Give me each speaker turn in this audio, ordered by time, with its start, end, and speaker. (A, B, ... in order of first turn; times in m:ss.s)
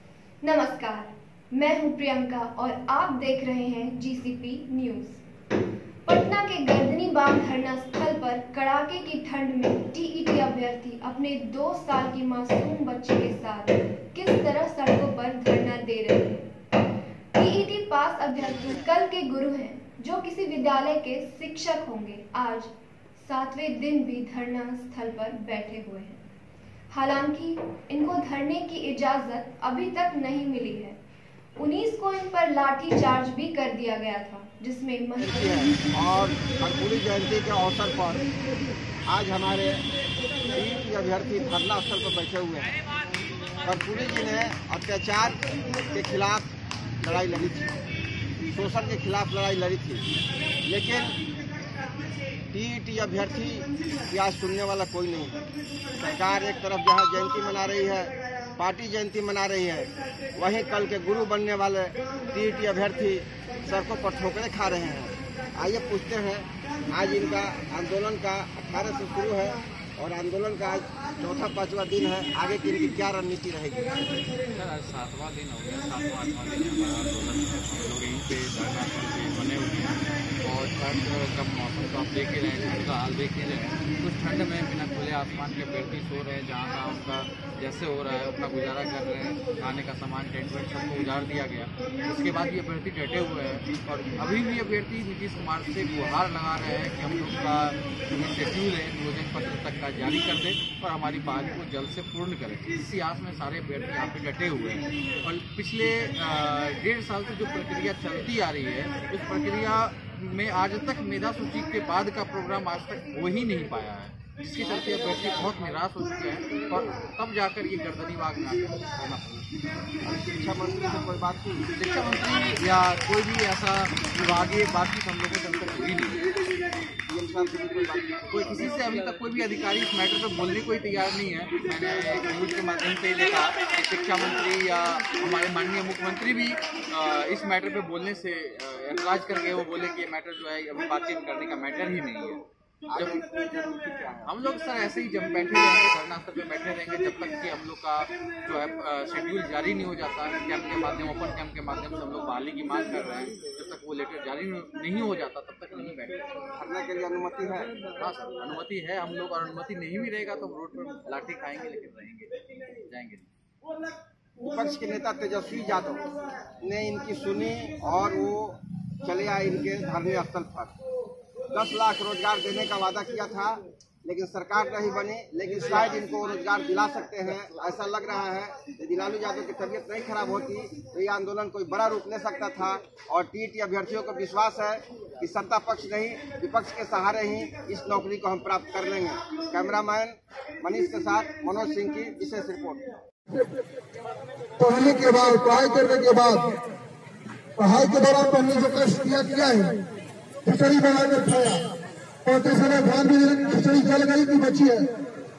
0:00.4-0:05.2 A
0:06.1-0:16.5 A
0:17.4-0:26.2 A
0:18.4-0:18.8 B
0:26.9-0:31.0 A
0:31.6-0:35.5 A
0:35.2-0:38.3 B
0:39.1-0:39.9 B
0:40.5-0:42.8 B
0:43.6-0:46.5 B
0:47.0-0:47.8 B
0:48.5-0:50.1 B
0:50.6-0:51.2 B
0:52.5-1:14.2 B
1:14.5-1:59.6 C
2:00.0-2:01.7 B
2:01.7-2:06.2 C
2:07.1-2:08.6 B
2:08.3-2:23.3 C
2:22.9-2:24.3 B
2:24.2-2:36.5 C
2:36.6-2:37.8 B
2:37.9-2:42.3 C
2:42.8-2:43.3 C
2:44.4-2:50.7 B
2:51.5-3:12.9 B
3:14.6-3:16.6 D
3:17.6-3:19.8 D
3:20.4-3:21.7 D
3:22.2-3:24.9 D